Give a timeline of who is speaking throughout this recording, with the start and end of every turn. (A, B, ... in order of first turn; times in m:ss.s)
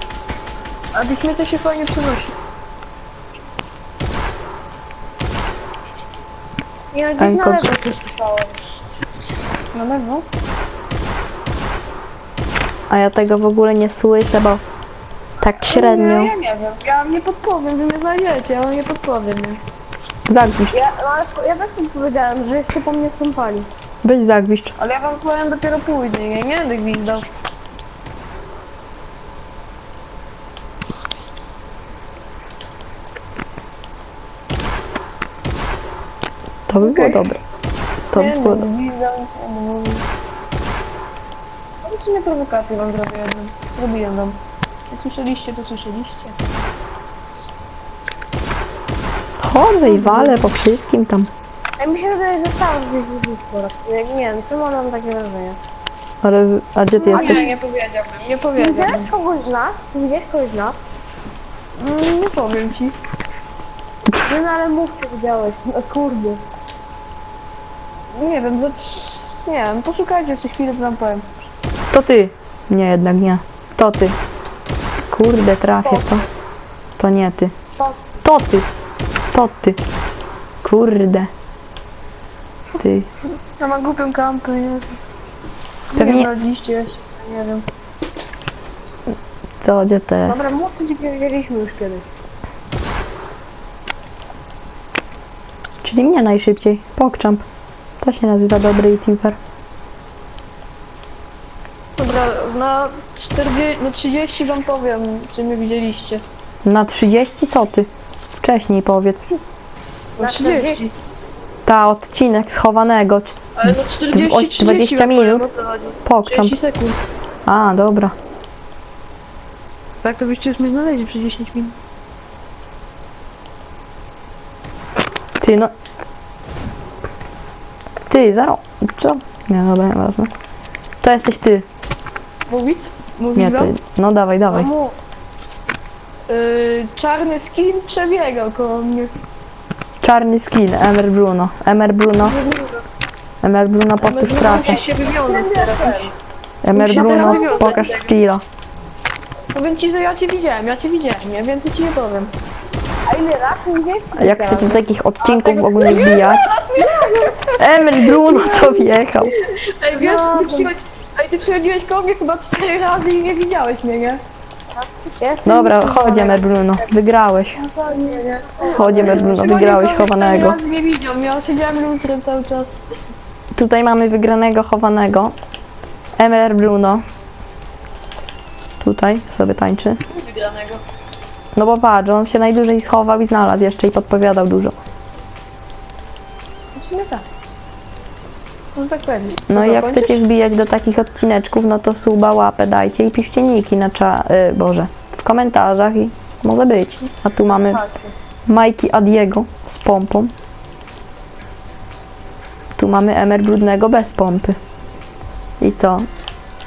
0:00.9-0:02.3 A
0:06.9-0:08.6 B
0:07.2-0:07.8 C
0:09.7-0:10.3 A
0:12.9-0:14.6 C
0:15.4-0:16.3 C
0:15.5-0:19.6 A
0:20.3-0:20.8 C
0:20.7-0:23.7 B
0:24.0-0:24.7 C
0:24.8-0:27.3 A
0:36.7-0:37.4 C
0:36.8-0:37.3 A
0:38.1-0:38.7 C
0:38.1-0:40.0 A
0:41.8-0:44.4 A
0:44.9-0:46.6 A
0:49.4-0:51.3 C
0:49.8-0:50.5 A
0:51.8-0:55.6 B
0:56.2-0:57.4 C
0:57.0-0:59.1 A
0:57.1-0:57.5 B
0:58.6-1:00.9 B
1:01.8-1:03.0 A
1:04.1-1:04.3 C
1:04.3-1:06.4 B
1:08.1-1:11.5 A
1:11.9-1:14.2 C
1:15.1-1:16.2 C
1:15.8-1:16.2 B
1:17.0-1:17.5 C
1:18.2-1:18.7 C
1:19.3-1:19.8 C
1:20.6-1:21.3 C
1:22.8-1:23.1 C
1:23.6-1:25.0 A
1:25.9-1:27.6 A
1:26.0-1:26.3 C
1:29.6-1:30.5 C
1:30.3-1:32.0 B
1:35.8-1:37.4 C
1:38.0-1:39.4 C
1:42.0-1:46.2 A
1:46.6-1:49.3 C
1:50.2-1:50.9 B
1:50.2-1:50.9 A
1:51.6-1:55.5 C
1:53.6-1:57.0 A
1:56.0-1:56.6 C
1:57.4-1:58.1 C
2:00.0-2:01.8 A
2:05.4-2:05.7 C
2:08.1-2:10.3 C
2:11.0-2:11.6 C
2:12.5-2:13.7 A
2:13.3-2:14.7 C
2:14.4-2:14.9 A
2:16.3-2:19.1 A
2:20.0-2:22.4 C
2:22.2-2:22.8 A
2:23.4-2:24.8 C
2:24.0-2:26.1 A
2:24.3-2:26.1 B
2:26.6-2:28.4 C
2:26.7-2:28.1 A
2:26.8-2:27.8 B
2:29.5-2:32.3 A
2:33.0-2:34.8 B
2:34.1-2:36.5 C
2:35.2-2:44.2 A
2:36.9-2:37.2 B
2:37.6-2:39.3 C
2:39.9-2:40.7 B
2:45.2-2:46.9 B
2:45.4-2:47.6 C
2:47.6-2:52.7 A
2:47.9-2:49.3 B
2:48.7-2:50.6 C
2:53.5-2:55.3 C
2:56.2-2:57.0 C
2:58.8-3:00.0 C
3:00.1-3:00.8 A
3:01.5-3:04.8 C
3:06.7-3:07.2 A
3:08.7-3:10.2 A
3:09.5-3:17.8 C
3:17.4-3:18.1 A
3:18.5-3:20.3 C
3:22.8-3:24.6 C
3:25.6-3:26.1 C